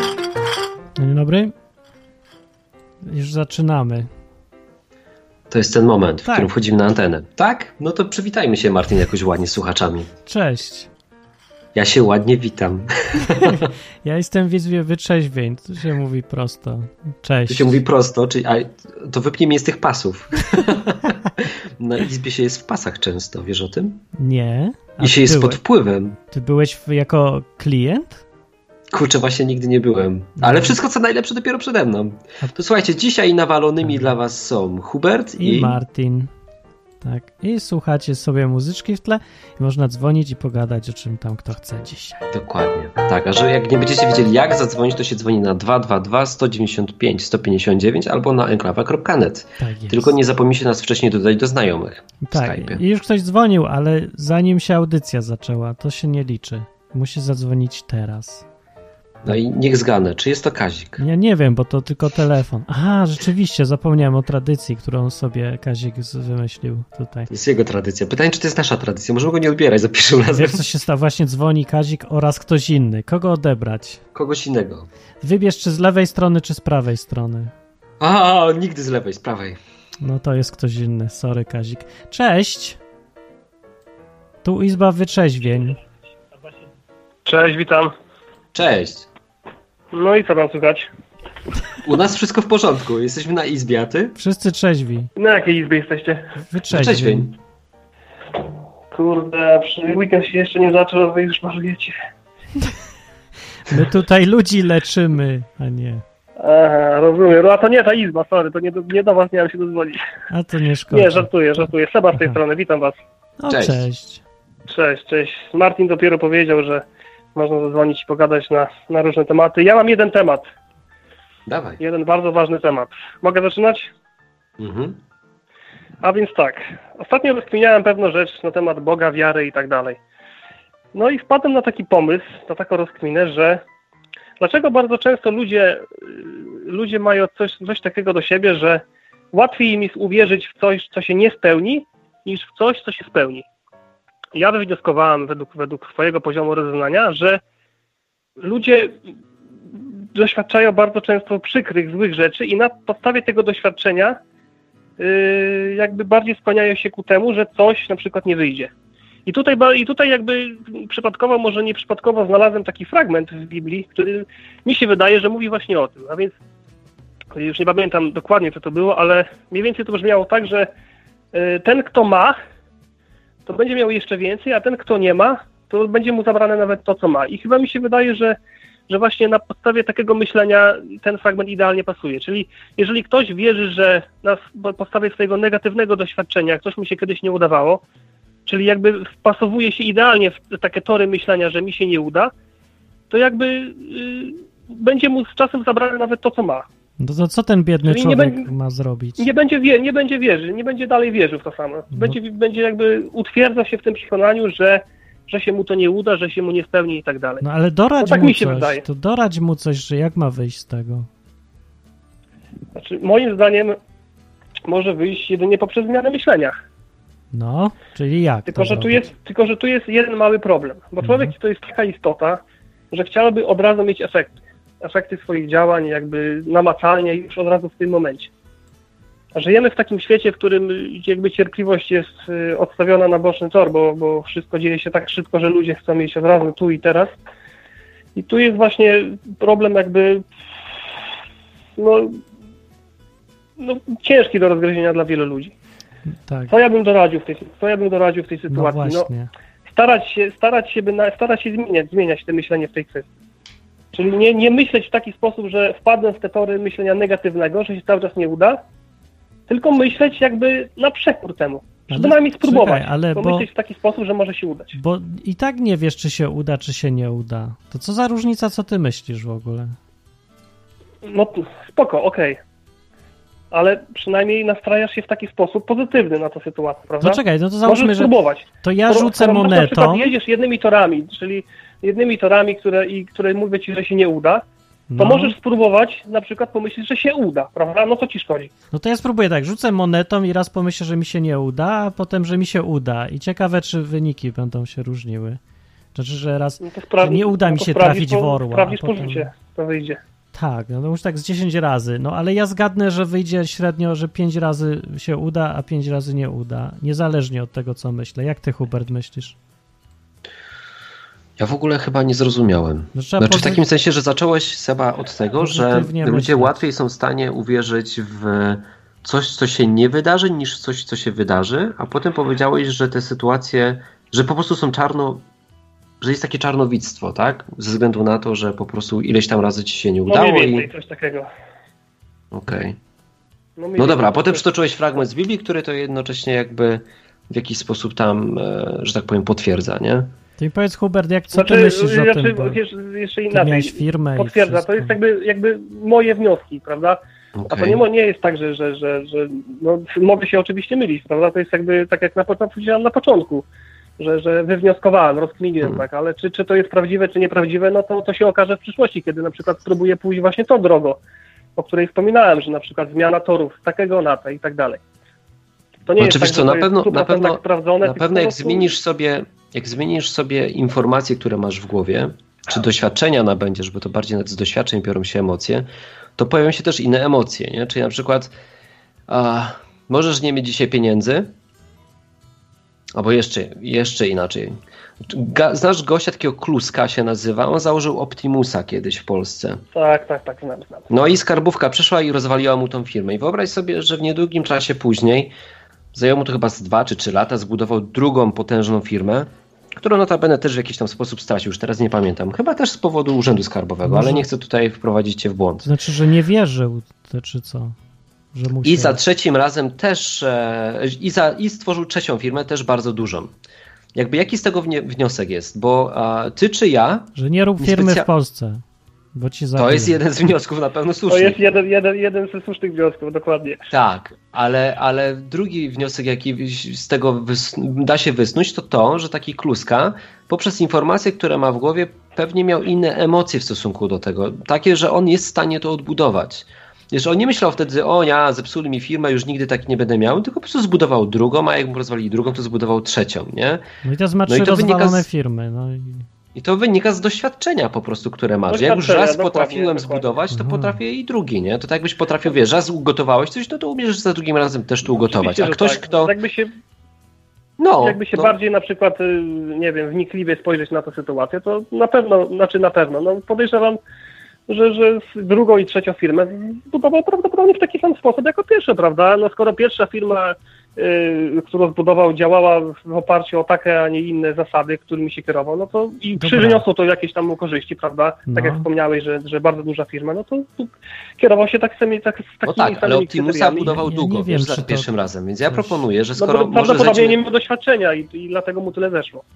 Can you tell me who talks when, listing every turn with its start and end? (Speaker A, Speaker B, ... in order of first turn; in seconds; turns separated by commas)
Speaker A: 1.0-1.5, Speaker A: 3.1-4.1, Speaker B: 5.5-10.1, Speaker A: 10.3-10.9, Speaker B: 11.8-13.7, Speaker A: 13.4-17.8, Speaker B: 17.5-24.0, Speaker A: 24.2-25.6, Speaker B: 25.0-26.2, Speaker A: 26.3-28.2, Speaker B: 28.9-35.8, Speaker A: 30.4-30.8, Speaker A: 33.9-34.1, Speaker A: 35.4-36.3, Speaker A: 37.0-42.2, Speaker B: 42.3-52.8, Speaker A: 49.6-50.2, Speaker A: 52.2-58.5, Speaker B: 59.2-61.0, Speaker A: 61.0-67.3, Speaker B: 67.3-70.6, Speaker A: 70.3-74.0, Speaker B: 74.2-74.9, Speaker A: 75.2-77.5, Speaker B: 78.0-79.6, Speaker A: 80.0-82.8, Speaker A: 84.4-85.8, Speaker C: 87.3-87.9, Speaker B: 88.5-89.1, Speaker C: 89.9-90.9, Speaker B: 91.8-94.2, Speaker A: 94.2-95.1, Speaker C: 95.2-96.3, Speaker A: 96.4-97.3, Speaker B: 96.7-97.4, Speaker C: 98.9-102.0, Speaker A: 103.7-106.0, Speaker C: 106.4-110.0, Speaker A: 110.3-111.3, Speaker C: 110.9-113.0, Speaker A: 113.4-114.2, Speaker B: 113.5-113.8, Speaker C: 114.7-116.8, Speaker C: 117.3-120.4, Speaker B: 121.5-121.8, Speaker C: 121.8-123.9, Speaker B: 124.6-125.0, Speaker C: 126.0-130.0, Speaker C: 130.9-133.6, Speaker C: 134.4-143.5, Speaker C: 144.3-147.4, Speaker C: 148.4-148.9, Speaker C: 150.2-154.2, Speaker C: 155.0-158.7, Speaker C: 159.3-166.3, Speaker C: 167.3-170.7, Speaker C: 171.3-172.4, Speaker C: 173.5-178.4, Speaker C: 178.9-187.8, Speaker C: 188.5-192.3, Speaker C: 193.1-196.7, Speaker A: 197.0-199.3, Speaker C: 197.8-198.5, Speaker C: 199.2-207.4, Speaker A: 207.4-211.1, Speaker C: 208.0-208.8, Speaker C: 212.8-213.8, Speaker C: 214.7-216.6, Speaker A: 217.3-219.1, Speaker C: 218.5-228.3, Speaker A: 221.0-221.3, Speaker C: 229.3-237.2, Speaker C: 238.2-240.3, Speaker C: 241.8-242.2, Speaker C: 243.6-245.5, Speaker A: 246.2-246.5, Speaker C: 246.5-249.1, Speaker A: 248.5-249.3, Speaker C: 249.7-253.1, Speaker C: 253.9-258.6, Speaker C: 259.5-264.8, Speaker A: 261.9-263.5, Speaker A: 264.8-269.8, Speaker C: 271.0-272.4, Speaker C: 273.5-284.4, Speaker A: 277.0-280.1, Speaker A: 284.9-285.3, Speaker C: 285.0-288.5, Speaker A: 288.7-295.4, Speaker A: 295.9-299.3, Speaker C: 296.6-300.0, Speaker A: 300.3-309.4, Speaker B: 311.4-325.2, Speaker A: 312.9-313.6, Speaker A: 315.4-316.6, Speaker B: 326.0-330.7, Speaker C: 330.1-331.3, Speaker B: 332.3-332.8, Speaker C: 333.6-334.4, Speaker B: 333.8-340.1, Speaker A: 340.4-342.6, Speaker C: 341.3-353.4, Speaker A: 343.3-345.0, Speaker B: 347.4-347.8, Speaker C: 354.0-361.0, Speaker C: 361.6-364.8, Speaker C: 365.9-368.7, Speaker B: 366.0-378.3, Speaker B: 379.1-381.3, Speaker B: 382.9-389.6, Speaker C: 389.7-390.9, Speaker B: 390.9-395.3, Speaker B: 395.9-405.7, Speaker A: 403.8-404.3, Speaker A: 405.6-407.8, Speaker A: 408.3-409.0, Speaker B: 408.6-413.4, Speaker B: 413.9-418.1, Speaker A: 417.2-418.6, Speaker A: 419.1-420.0, Speaker B: 419.6-421.4, Speaker C: 421.1-423.7, Speaker B: 423.7-443.6, Speaker A: 443.8-446.1, Speaker B: 444.3-445.1, Speaker B: 446.4-456.1, Speaker C: 448.5-450.1, Speaker A: 450.3-450.8, Speaker C: 454.9-456.5, Speaker B: 457.6-458.4, Speaker C: 457.8-463.8, Speaker C: 464.5-483.8, Speaker A: 476.2-476.6, Speaker A: 478.3-478.7, Speaker B: 482.4-487.2, Speaker A: 483.7-484.9, Speaker A: 485.5-485.8, Speaker C: 486.2-489.2